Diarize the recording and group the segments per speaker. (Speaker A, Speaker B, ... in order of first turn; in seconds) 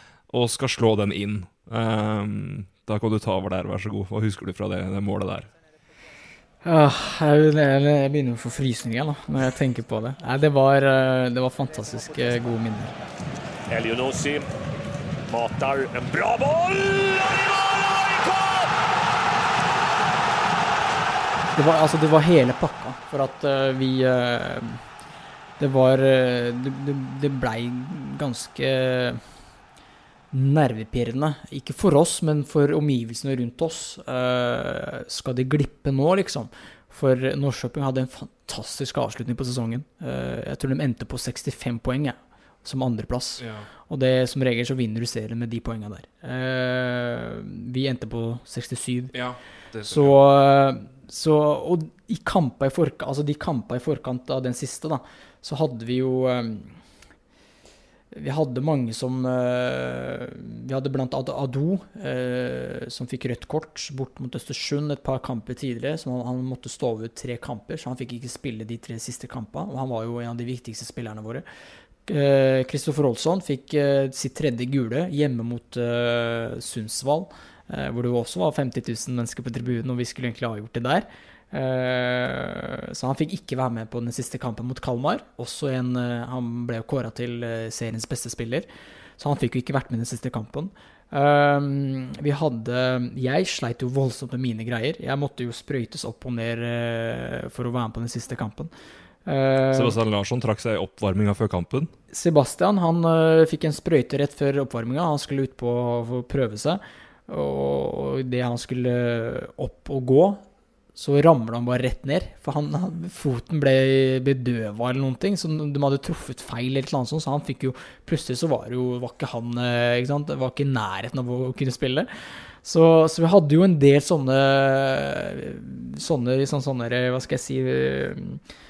Speaker A: 0.3-5.5, 43.4-43.7, 49.1-50.2, 99.7-101.9
Speaker B: 6.6-12.9, 21.6-24.8, 25.6-29.2, 30.3-49.1, 49.9-56.8, 58.1-71.5, 72.1-88.7, 89.2-98.7, 99.3-100.0, 102.1-110.4, 111.0-128.4
Speaker C: 13.7-14.5, 15.3-18.7